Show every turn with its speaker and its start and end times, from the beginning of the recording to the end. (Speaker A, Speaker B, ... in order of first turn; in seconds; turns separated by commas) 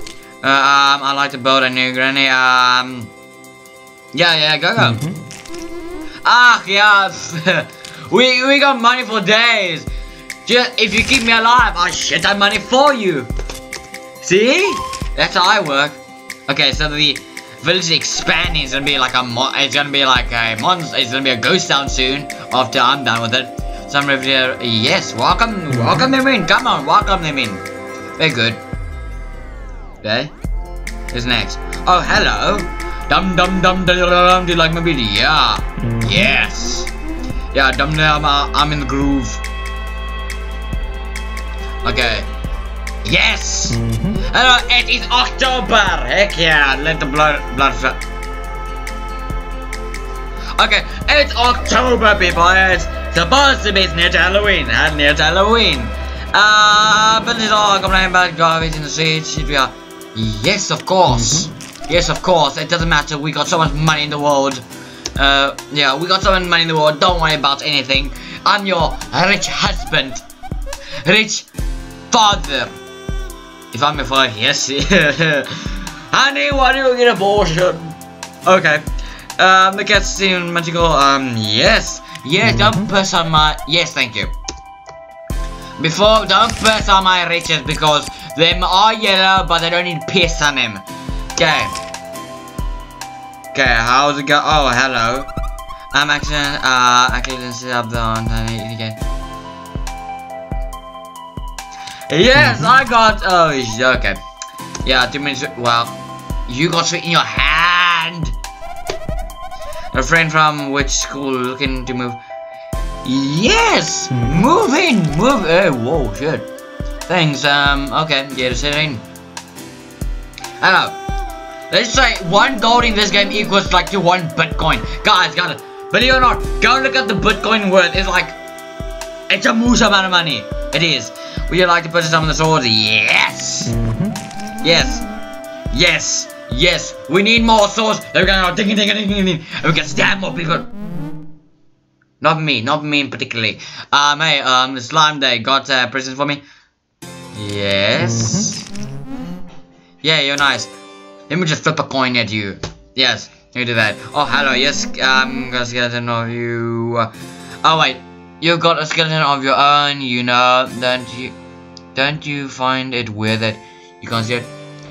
Speaker A: 0.4-3.1, Speaker A: 4.1-5.0, Speaker B: 4.8-5.2, Speaker A: 6.2-9.9, Speaker A: 10.4-13.3, Speaker A: 14.2-27.7, Speaker B: 25.7-26.1, Speaker A: 28.2-28.6, Speaker A: 30.0-30.3, Speaker A: 31.1-36.9, Speaker B: 35.8-36.1, Speaker A: 37.5-39.4, Speaker A: 41.8-42.3, Speaker A: 43.0-48.0, Speaker B: 43.7-44.2, Speaker A: 50.6-64.6, Speaker B: 61.1-61.5, Speaker A: 65.2-70.2, Speaker A: 71.0-71.5, Speaker A: 72.1-72.7, Speaker A: 73.7-78.8, Speaker A: 79.4-84.3, Speaker A: 85.8-90.8, Speaker A: 91.4-91.8, Speaker A: 93.5-95.3, Speaker A: 95.9-99.0, Speaker A: 102.1-104.2, Speaker B: 102.4-102.7, Speaker A: 104.8-108.3, Speaker A: 109.9-112.2, Speaker A: 113.0-116.5, Speaker B: 114.1-114.4, Speaker A: 117.1-119.0, Speaker A: 120.6-121.0, Speaker A: 121.7-128.4, Speaker A: 129.3-133.7, Speaker B: 133.7-134.2, Speaker A: 134.6-135.1, Speaker A: 135.7-140.7, Speaker A: 142.2-146.4, Speaker A: 147.3-148.7, Speaker B: 148.0-148.5, Speaker A: 150.0-150.7, Speaker A: 151.3-157.1, Speaker A: 157.6-161.3, Speaker A: 161.9-164.5